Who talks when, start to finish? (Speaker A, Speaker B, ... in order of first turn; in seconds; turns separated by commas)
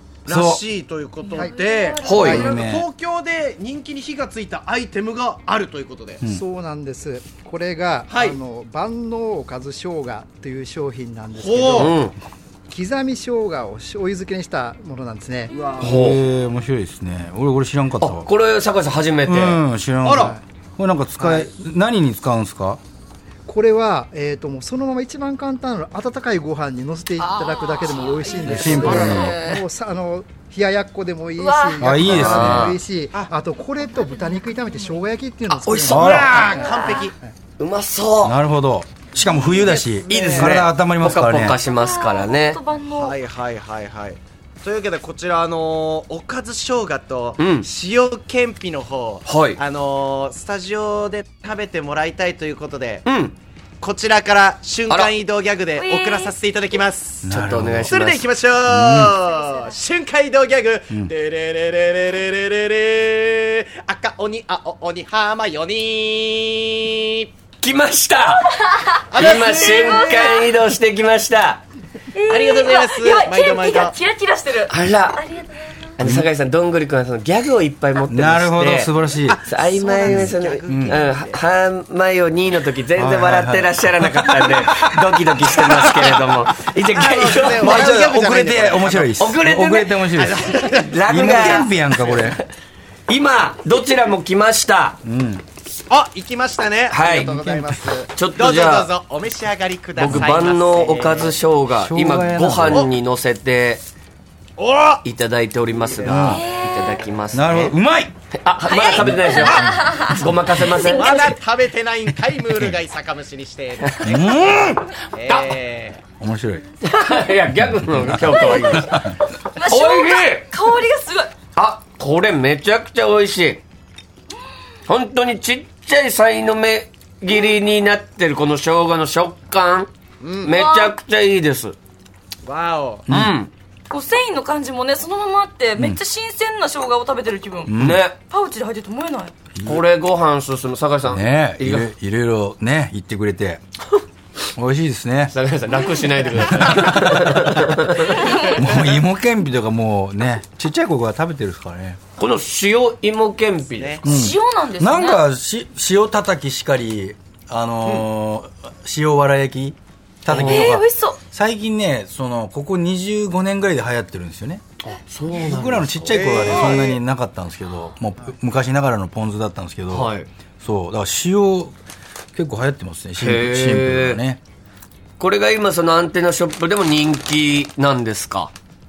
Speaker A: 0.2-6.2, Speaker B: 0.3-0.6, Speaker C: 1.2-2.6, Speaker D: 2.0-2.5, Speaker B: 2.1-2.9, Speaker E: 6.2-12.1, Speaker A: 8.1-8.4, Speaker A: 11.3-12.0, Speaker D: 11.7-12.2, Speaker E: 12.7-15.6, Speaker A: 15.5-16.2, Speaker D: 15.8-16.2, Speaker B: 15.8-18.3, Speaker D: 18.0-19.6, Speaker B: 19.3-22.8, Speaker A: 20.0-20.4, Speaker E: 20.2-20.4, Speaker E: 21.2-21.5, Speaker E: 23.5-37.3, Speaker C: 27.5-28.6, Speaker B: 28.4-29.4, Speaker D: 28.4-29.3, Speaker C: 29.2-29.5, Speaker C: 31.4-32.2, Speaker B: 31.8-32.8, Speaker D: 32.1-32.8, Speaker C: 34.0-35.0, Speaker D: 35.6-36.0, Speaker A: 35.8-37.1, Speaker B: 35.9-36.4, Speaker C: 36.6-37.0, Speaker D: 37.6-38.4, Speaker B: 38.2-41.6, Speaker A: 39.3-40.7, Speaker D: 40.1-42.6, Speaker C: 41.6-43.2, Speaker A: 42.9-53.1, Speaker D: 47.4-47.7, Speaker D: 49.2-49.6, Speaker D: 53.0-53.4, Speaker A: 53.8-57.3, Speaker D: 54.9-55.1, Speaker C: 55.7-56.4, Speaker B: 57.2-58.0, Speaker D: 57.3-58.3, Speaker A: 57.9-67.3, Speaker B: 58.7-59.2, Speaker C: 59.1-59.8, Speaker D: 67.6-68.5, Speaker C: 68.6-70.5, Speaker A: 69.1-70.4, Speaker D: 69.1-71.6, Speaker C: 72.1-75.9, Speaker A: 72.3-74.0, Speaker D: 74.7-75.3, Speaker D: 76.0-79.0, Speaker B: 76.0-76.3, Speaker B: 78.1-79.4, Speaker A: 79.2-81.4, Speaker D: 79.5-87.9, Speaker B: 80.0-81.0, Speaker B: 83.0-84.8, Speaker A: 85.7-86.1, Speaker A: 86.9-89.1, Speaker B: 87.6-90.5, Speaker D: 89.2-92.2, Speaker A: 90.2-92.1, Speaker B: 91.1-92.4, Speaker D: 93.1-95.0, Speaker B: 95.0-95.4, Speaker A: 95.9-101.4, Speaker D: 96.9-97.5, Speaker D: 98.2-98.9, Speaker D: 100.0-103.8, Speaker B: 100.0-100.4, Speaker B: 101.7-102.9, Speaker A: 104.6-105.0, Speaker D: 105.0-107.8, Speaker B: 106.0-106.5, Speaker C: 106.1-107.0, Speaker B: 107.3-108.1, Speaker D: 108.4-111.3, Speaker C: 108.7-111.3, Speaker B: 108.9-109.7, Speaker A: 110.8-116.0, Speaker B: 114.0-114.8, Speaker B: 116.2-116.7, Speaker D: 116.8-119.0, Speaker B: 117.8-119.2, Speaker C: 118.4-121.3, Speaker D: 119.7-120.5, Speaker D: 121.6-123.6, Speaker D: 124.9-129.9, Speaker A: 130.2-130.6, Speaker D: 130.4-131.8, Speaker C: 130.5-131.0, Speaker A: 132.4-133.1, Speaker B: 133.1-133.3, Speaker D: 133.1-133.5, Speaker C: 133.9-137.8, Speaker B: 137.7-138.1, Speaker D: 137.8-138.2, Speaker C: 138.3-139.3, Speaker B: 139.6-139.8, Speaker D: 139.7-141.9, Speaker B: 141.1-143.6, Speaker B: 144.6-145.3, Speaker D: 145.3-148.2, Speaker B: 146.6-152.0, Speaker C: 148.2-148.5, Speaker D: 152.2-154.1, Speaker A: 153.8-154.1, Speaker B: 154.1-164.6, Speaker C: 154.1-155.2, Speaker D: 160.3-160.8, Speaker C: 160.3-161.2, Speaker D: 164.8-166.5, Speaker B: 165.3-171.8, Speaker A: 166.1-167.0, Speaker C: 166.5-166.8, Speaker D: 169.9-170.3, Speaker B: 172.3-174.4, Speaker D: 173.2-174.2, Speaker D: 175.2-178.5